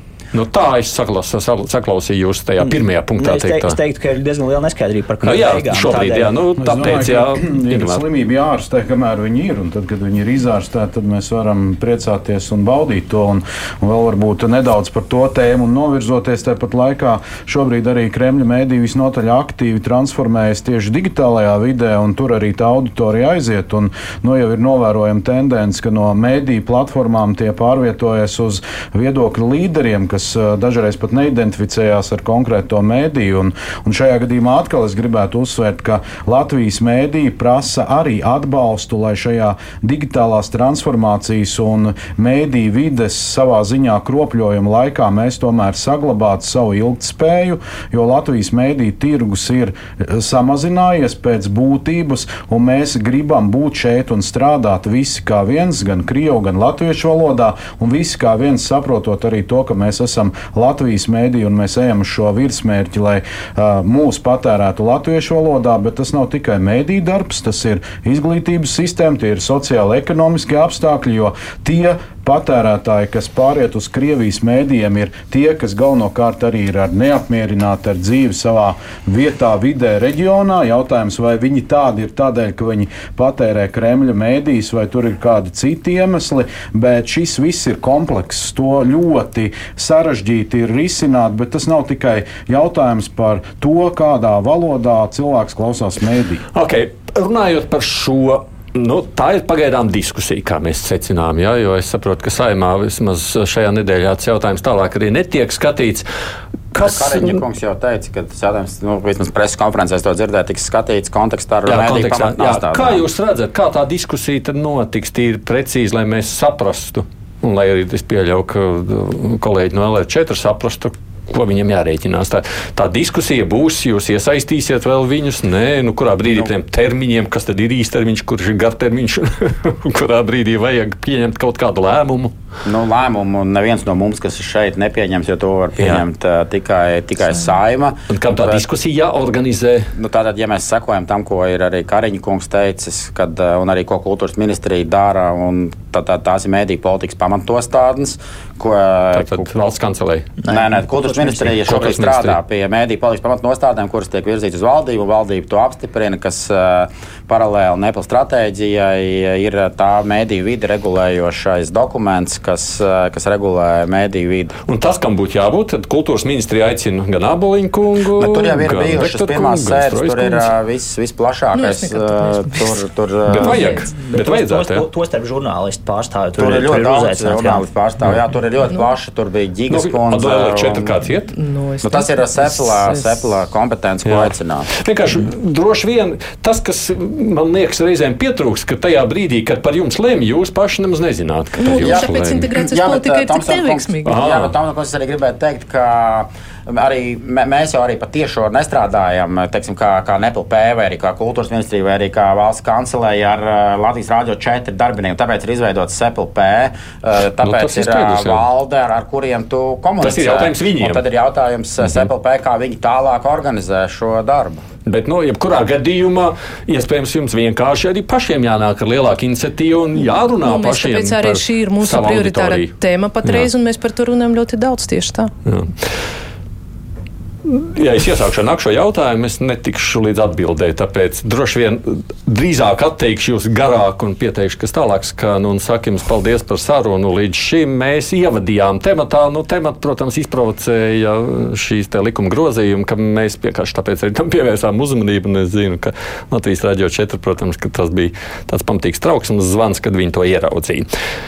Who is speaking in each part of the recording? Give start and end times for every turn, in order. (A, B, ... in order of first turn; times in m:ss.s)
0:00.3-0:03.8 A
0:02.6-0:06.3 B
0:05.2-0:08.0 A
0:06.6-1:36.4 C
1:36.5-1:46.1 A
1:46.7-1:47.4 A
1:46.8-1:53.0 D
1:51.6-2:12.3 A
2:12.6-2:18.6 D
2:18.1-2:19.9 A
2:20.0-2:29.5 D
2:29.1-2:30.3 A
2:30.4-2:31.4 B
2:30.5-2:44.5 D
2:31.6-2:32.4 A
2:44.6-2:50.5 A
2:48.2-2:53.8 D
2:51.5-2:52.8 E
2:53.3-2:54.8 A
2:53.4-2:53.9 E
2:53.9-2:57.7 B
2:56.4-3:00.9 D
2:59.7-3:01.3 A
3:01.3-3:03.3 E
3:01.8-3:04.7 D
3:04.0-3:12.5 A
3:11.6-3:14.2 E
3:11.8-3:34.6 D
3:14.0-3:14.5 A
3:27.4-3:28.4 A
3:30.0-3:31.0 A
3:34.8-3:42.7 A
3:40.4-3:45.3 E
3:45.4-3:45.7 A
3:47.4-4:10.8 A